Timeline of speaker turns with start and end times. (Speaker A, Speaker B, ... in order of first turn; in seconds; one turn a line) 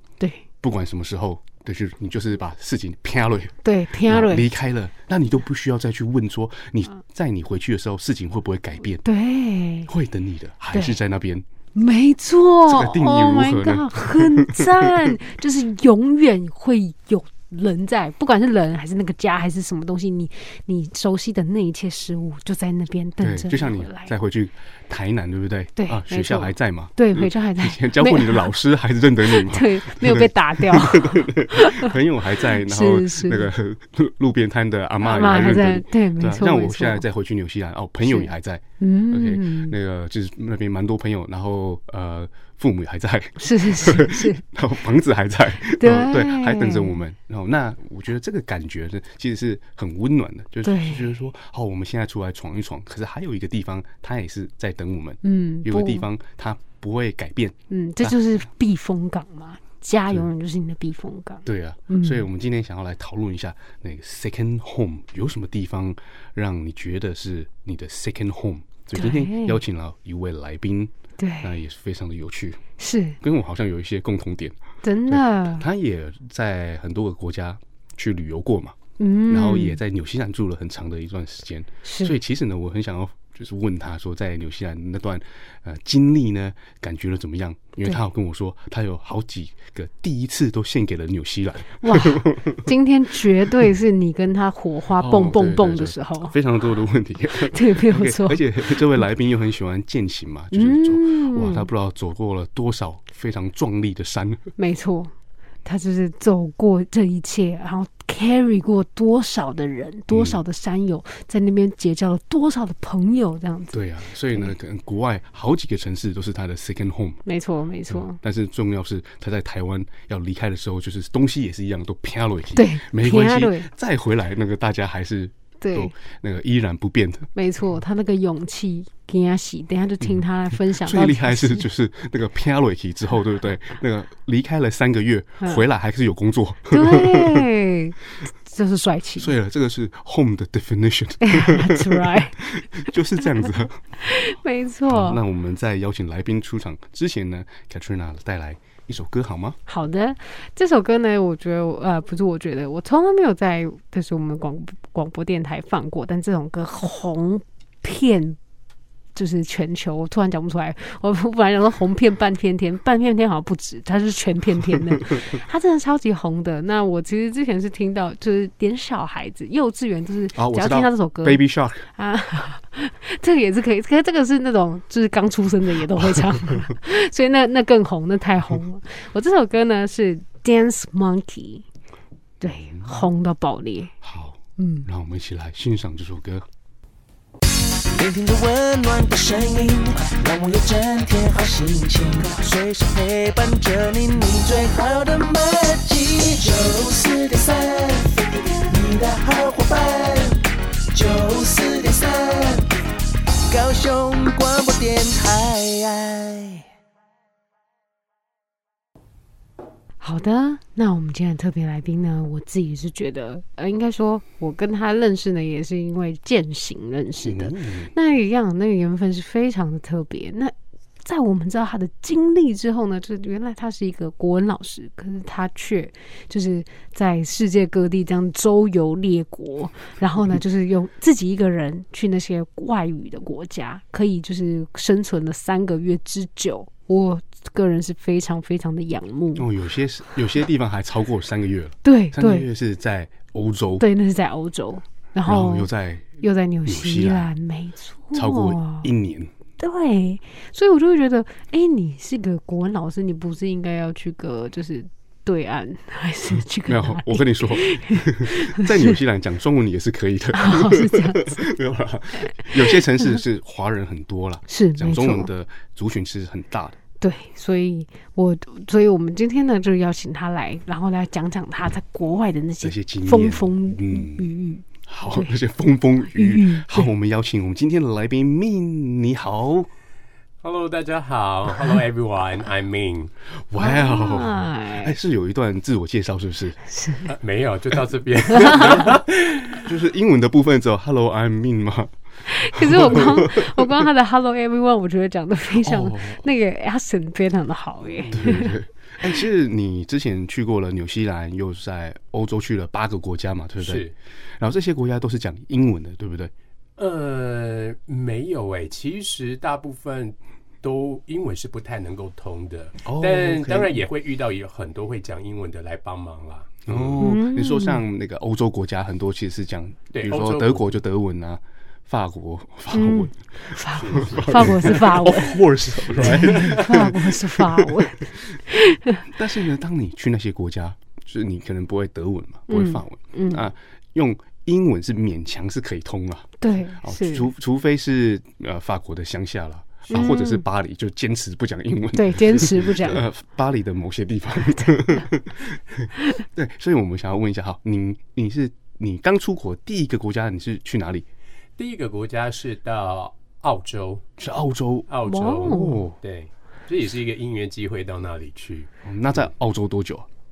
Speaker A: 0.6-9.0
Speaker B: 3.6-4.5
Speaker B: 9.0-9.9
Speaker A: 9.9-11.4
Speaker B: 11.8-24.1
Speaker A: 12.7-15.1
Speaker A: 23.2-58.2
Speaker B: 25.8-28.5
Speaker B: 29.2-33.5
Speaker B: 35.0-37.0
Speaker B: 38.0-39.7
Speaker B: 43.4-44.4
Speaker B: 45.7-47.0
Speaker B: 50.6-51.1
Speaker B: 55.2-56.0
Speaker B: 57.7-62.2
Speaker A: 61.5-72.6
Speaker B: 68.9-69.6
Speaker B: 71.2-71.5
Speaker B: 72.8-73.2
Speaker A: 73.2-78.7
Speaker B: 74.8-75.7
Speaker B: 79.0-79.8
Speaker A: 79.3-92.7
Speaker B: 81.8-82.2
Speaker B: 91.8-96.3
Speaker A: 95.0-104.4
Speaker B: 97.4-98.8
Speaker B: 100.5-101.7
Speaker B: 104.6-105.1
Speaker B: 105.6-113.8
Speaker A: 110.1-110.4
Speaker A: 113.7-117.2
Speaker B: 117.2-118.2
Speaker A: 117.9-127.3
Speaker B: 122.5-123.7
Speaker B: 125.6-125.9
Speaker B: 127.3-131.7
Speaker A: 130.7-137.4
Speaker B: 136.7-139.3
Speaker A: 139.2-143.8
Speaker B: 141.2-142.4
Speaker B: 144.0-145.2
Speaker A: 144.9-149.6
Speaker B: 149.7-158.4
Speaker B: 159.1-181.7
Speaker A: 170.3-171.8
Speaker A: 176.2-176.5
Speaker B: 182.4-183.9
Speaker A: 182.5-183.1
Speaker A: 184.0-186.5
Speaker B: 184.6-184.8
Speaker C: 187.9-202.8
Speaker C: 203.5-206.6
Speaker B: 210.0-239.5
Speaker A: 217.2-217.9
Speaker A: 239.3-243.8
Speaker B: 241.8-242.5
Speaker B: 243.8-248.9
Speaker A: 245.2-247.3
Speaker A: 248.1-249.3
Speaker B: 249.6-259.0
Speaker A: 256.6-266.8
Speaker B: 260.3-261.4
Speaker B: 262.2-262.5
Speaker B: 264.5-265.3
Speaker B: 267.0-275.3
Speaker A: 272.6-274.3
Speaker A: 274.8-279.7
Speaker B: 276.1-276.9
Speaker D: 280.4-283.1
Speaker A: 283.5-286.6
Speaker B: 283.6-284.9
Speaker B: 286.7-287.1
Speaker D: 287.1-289.6
Speaker A: 288.4-289.0
Speaker A: 289.6-293.9
Speaker B: 292.3-298.5
Speaker A: 295.6-296.2
Speaker D: 297.8-298.1
Speaker A: 298.1-306.3
Speaker D: 303.6-303.9
Speaker D: 306.8-317.0
Speaker A: 312.8-313.8
Speaker A: 316.6-323.3
Speaker B: 317.0-317.8
Speaker D: 319.9-320.7
Speaker B: 322.7-325.4
Speaker D: 323.7-324.9
Speaker A: 323.9-328.4
Speaker D: 325.9-326.7
Speaker B: 325.9-329.0
Speaker A: 329.1-351.1
Speaker B: 332.5-333.4
Speaker B: 336.4-337.3
Speaker B: 339.9-340.4
Speaker B: 341.9-343.0
Speaker D: 351.6-354.0
Speaker A: 354.2-354.9
Speaker D: 354.9-359.2
Speaker B: 355.0-355.8
Speaker A: 355.4-355.9
Speaker A: 358.8-360.1